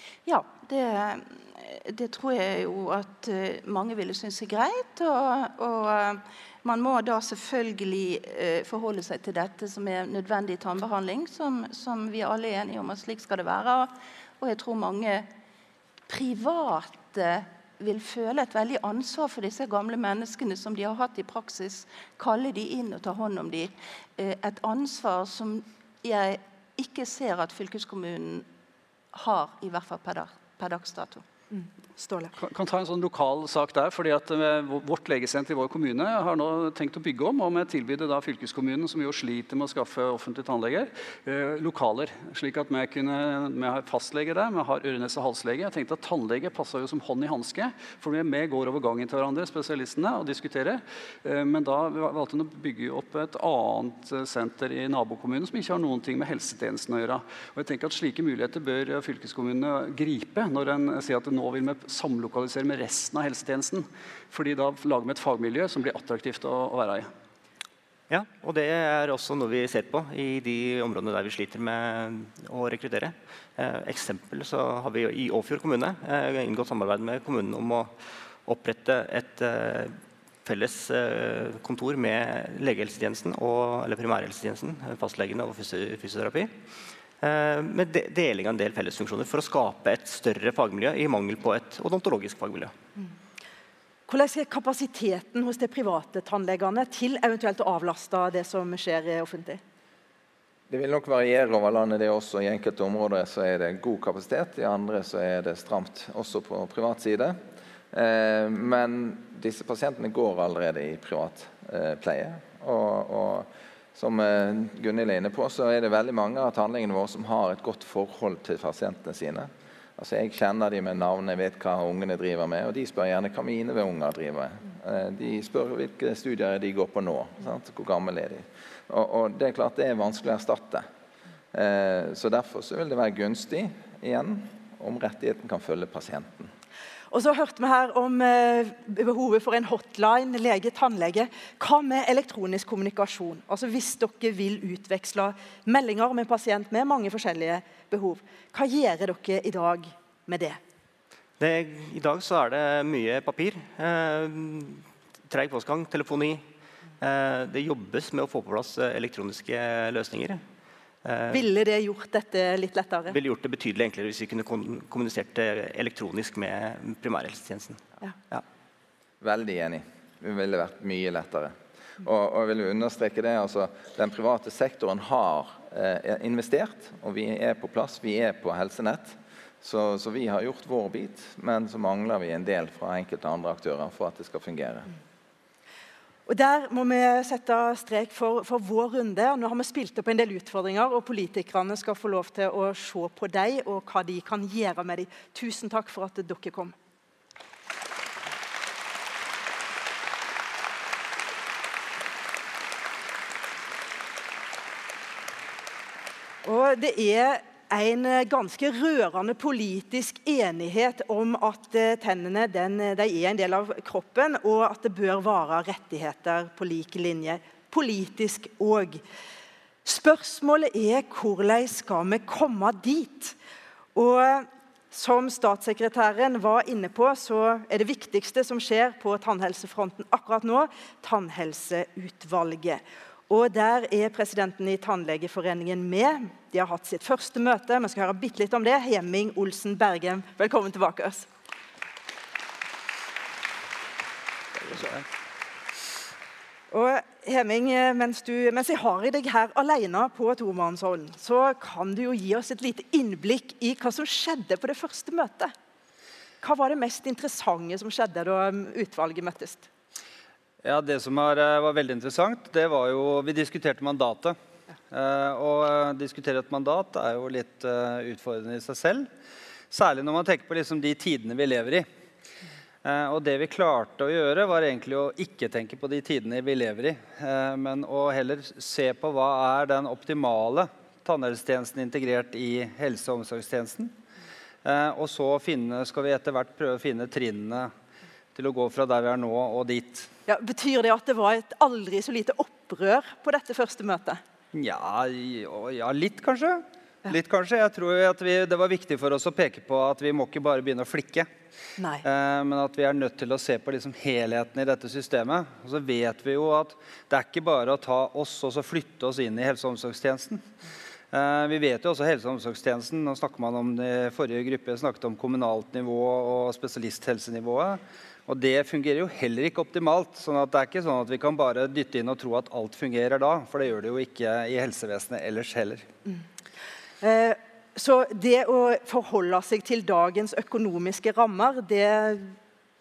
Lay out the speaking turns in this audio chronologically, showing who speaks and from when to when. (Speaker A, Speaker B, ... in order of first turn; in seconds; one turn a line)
Speaker A: 0.3-15.3
Speaker A: 16.1-28.5
Speaker A: 29.1-31.2
Speaker B: 31.5-32.3
Speaker C: 32.4-67.1
Speaker D: 68.1-77.9
Speaker D: 78.5-86.6
Speaker D: 87.2-92.7
Speaker B: 94.1-99.6
Speaker E: 100.7-107.4
Speaker E: 107.9-130.9
Speaker E: 131.5-136.5
Speaker B: 137.1-150.6
Speaker D: 151.4-156.4
Speaker D: 157.0-160.4
Speaker D: 161.1-161.4
Speaker B: 161.3-163.2
Speaker D: 163.1-168.4
Speaker E: 169.2-184.9
Speaker B: 186.3-196.7
Speaker B: 206.4-219.0
Speaker B: 219.8-223.4
Speaker B: 223.9-241.3
Speaker B: 244.7-244.9
Speaker B: 246.7-255.5
Speaker B: 256.4-259.7
Speaker F: 260.6-264.4
Speaker F: 264.9-269.1
Speaker F: 269.7-271.9
Speaker F: 272.8-284.0
Speaker F: 284.6-287.7
Speaker F: 288.4-290.1
Speaker B: 290.3-294.2
Speaker F: 294.5-301.3
Speaker B: 301.8-302.0
Speaker F: 302.0-310.5
Speaker F: 311.1-325.9
Speaker B: 327.0-332.4